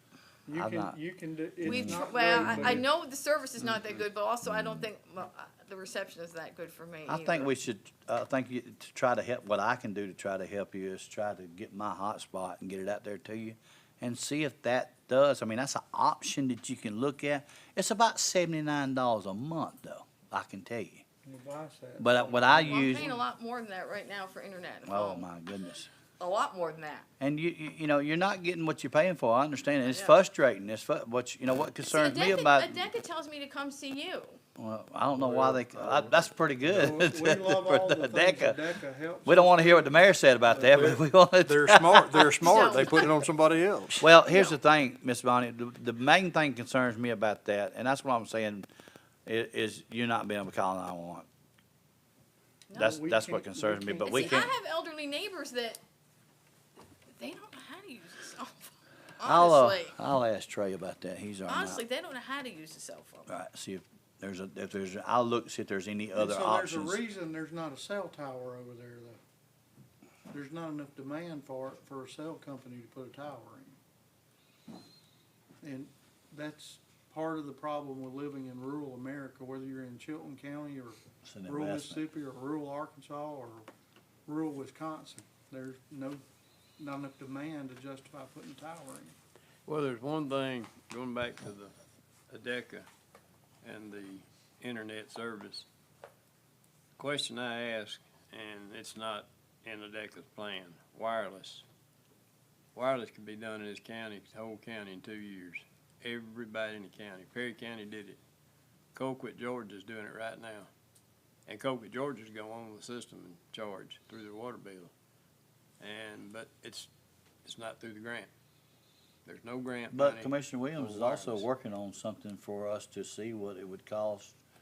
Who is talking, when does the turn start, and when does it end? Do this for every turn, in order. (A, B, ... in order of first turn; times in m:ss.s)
0:00.5-0:02.9 A
0:00.5-0:01.0 B
0:01.6-0:02.8 B
0:01.6-0:07.5 C
0:04.4-0:04.9 B
0:07.1-0:21.0 B
0:21.2-0:23.2 A
0:22.0-0:23.1 B
0:22.7-0:25.3 C
0:24.8-0:25.9 B
0:26.2-0:27.1 C
0:27.2-0:32.8 B
0:29.8-0:30.2 C
0:31.8-0:34.4 C
0:34.6-0:38.6 B
0:35.2-0:41.0 A
0:39.2-0:43.0 B
0:41.5-0:44.1 D
0:42.4-0:43.1 C
0:44.0-0:48.7 B
0:44.3-0:44.6 C
0:49.3-0:51.3 B
0:52.7-0:54.5 A
0:52.7-0:54.5 B
0:54.0-0:55.8 C
0:57.1-1:00.0 C
0:59.2-1:01.8 B
1:01.5-1:03.3 C
1:03.3-1:07.0 B
1:06.2-1:09.2 A
1:10.3-1:13.8 A
1:15.6-1:23.7 A
1:21.2-1:22.0 B
1:24.3-1:26.2 A
1:26.8-1:29.2 A
1:29.7-1:31.7 E
1:32.3-1:32.9 E
1:33.6-1:35.7 E
1:37.0-1:41.6 E
1:42.8-1:48.2 E
1:48.9-1:50.7 E
1:51.5-1:54.9 E
1:55.8-1:56.9 E
1:57.4-1:58.3 E
1:59.3-2:01.5 E
1:59.9-2:04.4 B